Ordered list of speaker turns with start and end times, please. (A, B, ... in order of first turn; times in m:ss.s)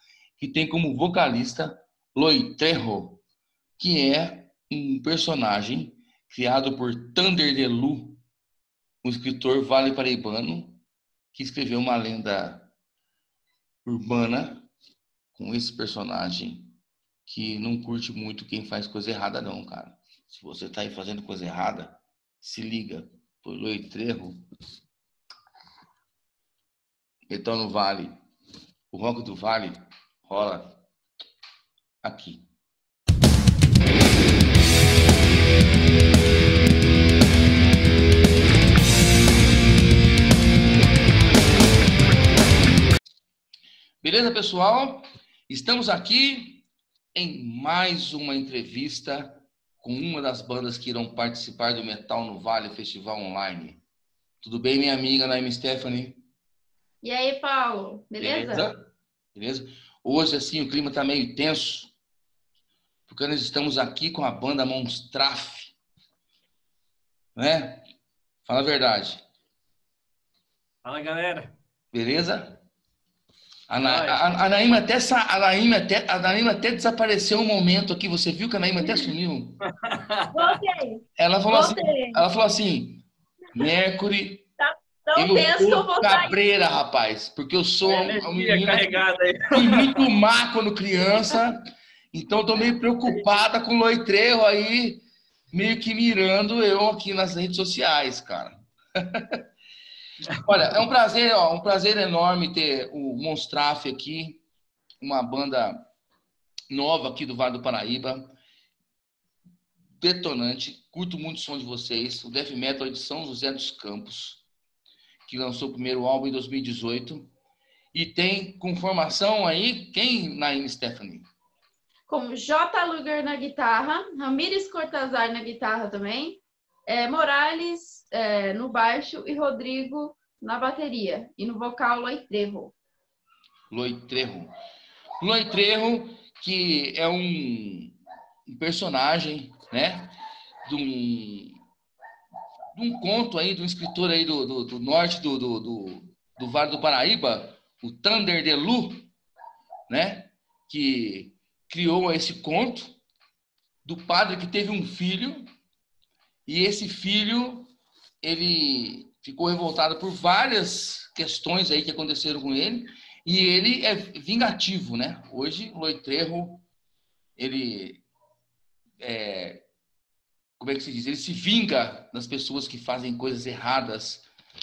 0:00.4-0:03.2 A
0:03.8-0:08.2 A
0:09.0-0:10.8 A
0:11.3-0:12.7 A
0:13.8-0:14.7 A
0:15.3-0:16.7 A
0:17.3-0:24.4 A
0:27.3-0:28.1 A
0:28.9-0:30.8 A
0:32.0-0:32.4 A
0:44.0-0:53.8 A
0:54.4-0:56.2 A
0:57.0-0:58.7 B
0:58.2-1:01.9 A
1:03.1-1:05.7 A
1:07.4-1:07.8 A
1:08.4-1:09.2 A
1:10.8-1:11.5 C
1:11.9-1:12.6 A
1:13.7-1:19.6 A
1:13.8-1:14.3 C
1:19.8-1:20.6 C
1:20.3-1:22.2 B
1:21.2-1:24.5 A
1:24.6-1:26.4 B
1:25.1-1:39.4 A
1:27.8-1:30.0 C
1:40.4-1:44.4 A
1:45.0-1:45.9 A
1:46.7-1:48.3 A
1:50.0-1:54.4 A
1:55.3-1:57.3 A
1:57.9-2:01.2 A
2:02.1-2:12.7 B
2:13.7-2:14.5 A
2:15.2-2:17.9 A
2:18.5-2:20.1 A
2:20.6-2:21.6 A
2:22.7-2:29.1 A
2:29.9-2:32.9 A
2:33.8-2:35.5 A
2:36.4-2:37.7 A
2:38.2-2:46.6 A
2:47.4-2:48.0 A
2:49.0-2:49.6 A
2:50.6-2:54.3 A